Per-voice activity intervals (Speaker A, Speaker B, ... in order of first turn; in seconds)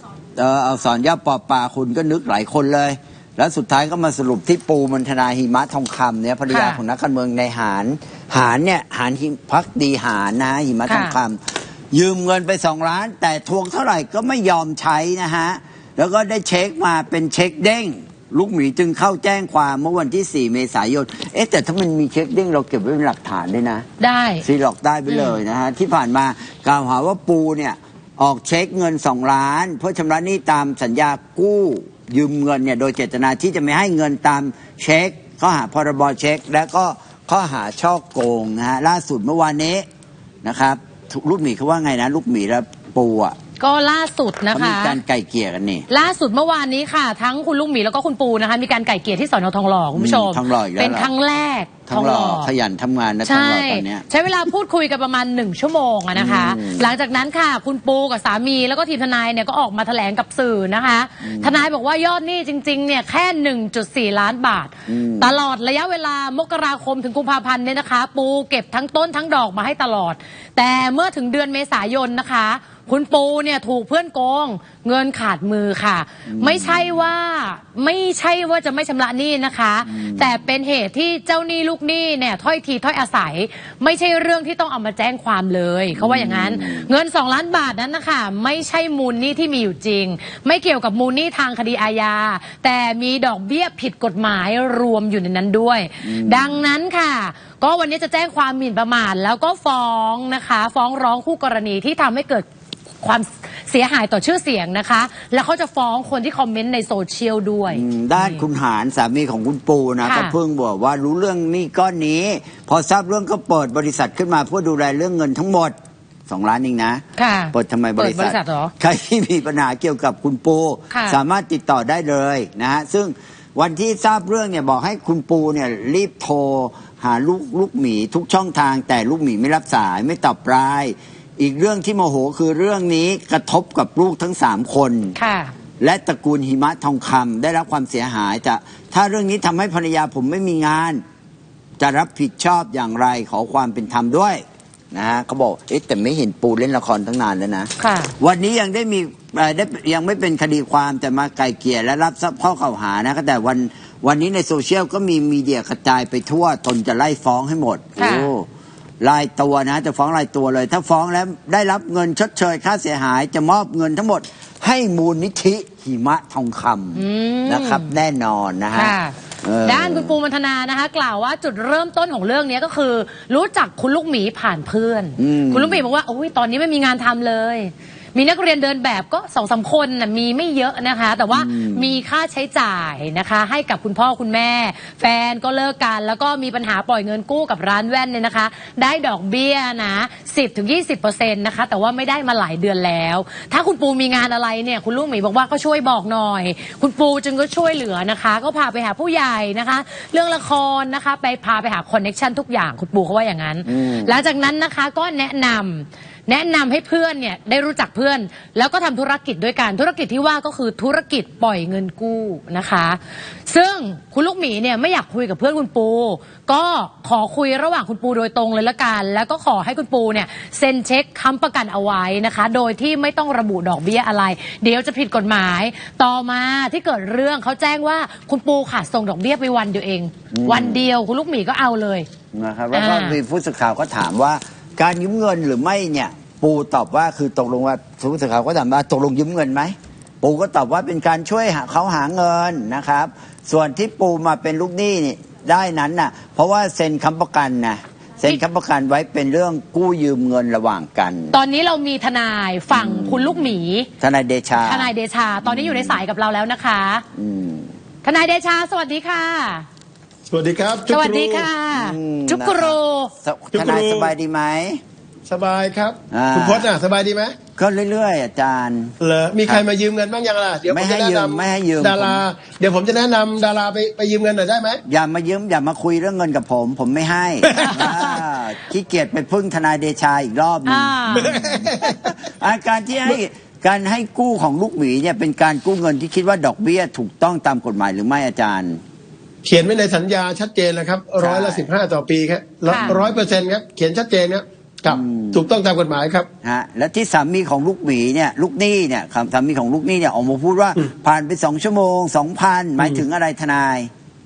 Speaker A: 0.3-11.4, 11.9-23.9, 24.4-39.8, 40.4-43.4, 44.5-45.9, 49.9-51.1, 51.9-54.1, 56.1-56.9, 61.2-61.6, 64.9-65.4, 76.3-77.1, 79.8-80.4, 85.9-86.9, 96.0-96.6, 107.7-115.7, 116.3-135.1, 135.8-141.0, 141.8-158.5, 159.0-170.2, 175.2-175.8, 181.3-181.9, 203.7-204.2, 230.3-230.8, 232.3-251.4, 252.7-254.9, 255.4-256.0, 257.1-257.7, 261.7-264.8, 266.1-266.7, 267.6-269.6, 270.7-272.2, 274.9-288.8, 291.2-291.6, 292.7-293.2, 294.9-295.5, 296.4-303.9
Speaker B: 6.5-6.8, 10.9-11.2, 24.0-24.4, 25.1-25.4, 43.6-45.0, 45.9-52.5, 53.2-102.5, 103.0-108.5, 110.0-110.3, 117.2-118.7, 120.9-121.2, 135.2-135.5, 147.8-148.1, 158.0-158.3, 166.9-167.9, 168.7-232.1, 232.7-233.2, 251.3-253.9, 254.6-257.0, 258.0-259.6, 260.9-263.1, 277.6-278.1, 280.6-281.4, 292.7-292.9
Speaker C: 260.3-261.5, 263.5-264.1, 265.3-267.4, 269.0-274.8, 277.4-278.0, 281.1-282.1, 289.4-296.3